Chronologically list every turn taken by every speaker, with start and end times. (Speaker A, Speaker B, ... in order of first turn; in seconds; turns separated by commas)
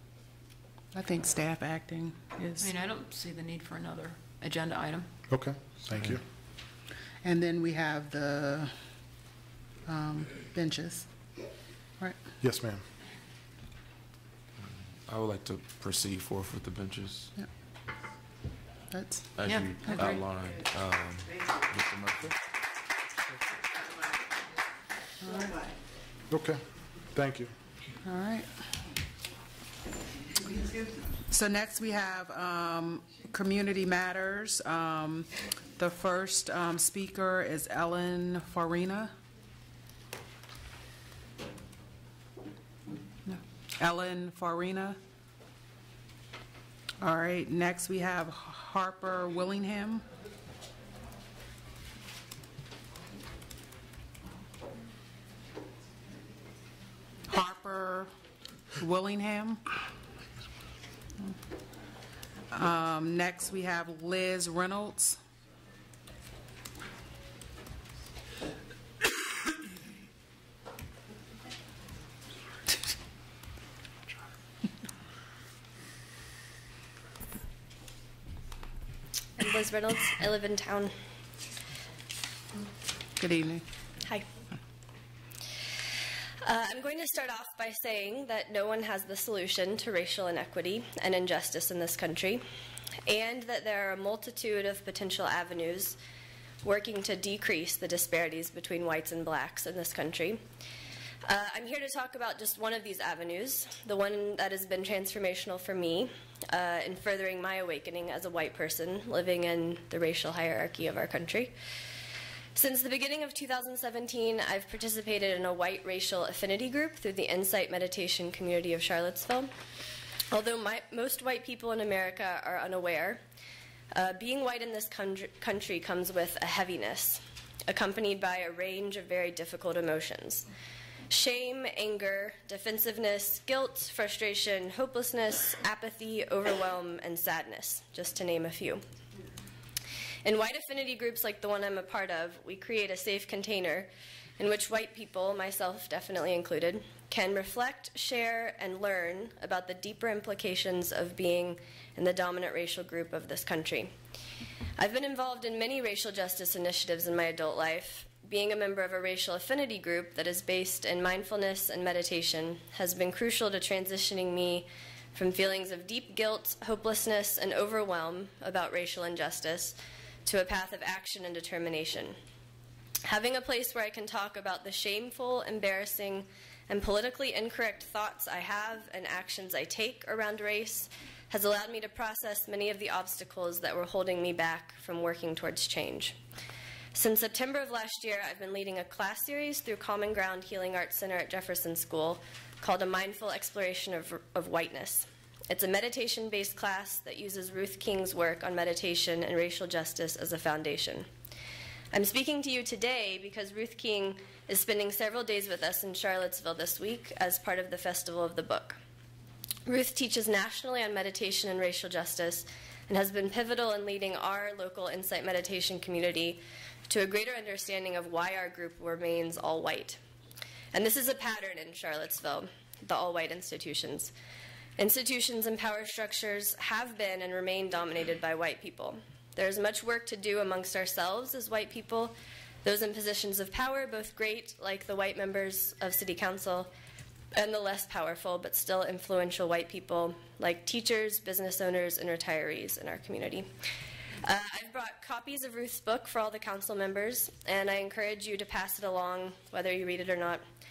Speaker A: 0.9-2.7, Speaker B: 2.6-5.1, Speaker C: 5.3-6.2, Speaker A: 7.2-8.7, Speaker A: 9.8-11.1, Speaker C: 12.4-12.8, Speaker D: 15.1-17.3, Speaker A: 18.9-19.3, Speaker D: 19.4-22.3, Speaker B: 19.4-20.2, Speaker A: 25.2-25.7, Speaker C: 26.3-27.5, Speaker A: 28.0-28.7, Speaker A: 31.3-39.1, Speaker A: 43.2-45.0, Speaker A: 47.0-50.0, Speaker A: 57.3-58.1, Speaker A: 58.8-59.6, Speaker A: 62.5-65.2, Speaker E: 79.4-80.9, Speaker A: 83.2-83.6, Speaker E: 86.5-92.4, Speaker E: 93.0-96.0, Speaker E: 96.6-100.4, Speaker E: 101.2-111.5, Speaker E: 112.5-119.5, Speaker E: 120.3-123.2, Speaker E: 123.9-130.4, Speaker E: 131.1-138.8, Speaker E: 140.2-143.9, Speaker E: 144.4-153.9, Speaker E: 154.8-172.2, Speaker E: 173.1-186.2, Speaker E: 186.9-201.1, Speaker E: 201.9-208.8, Speaker E: 209.7-220.0, Speaker E: 220.7-224.1, Speaker E: 224.8-236.7, Speaker E: 237.3-243.5, Speaker E: 244.2-250.4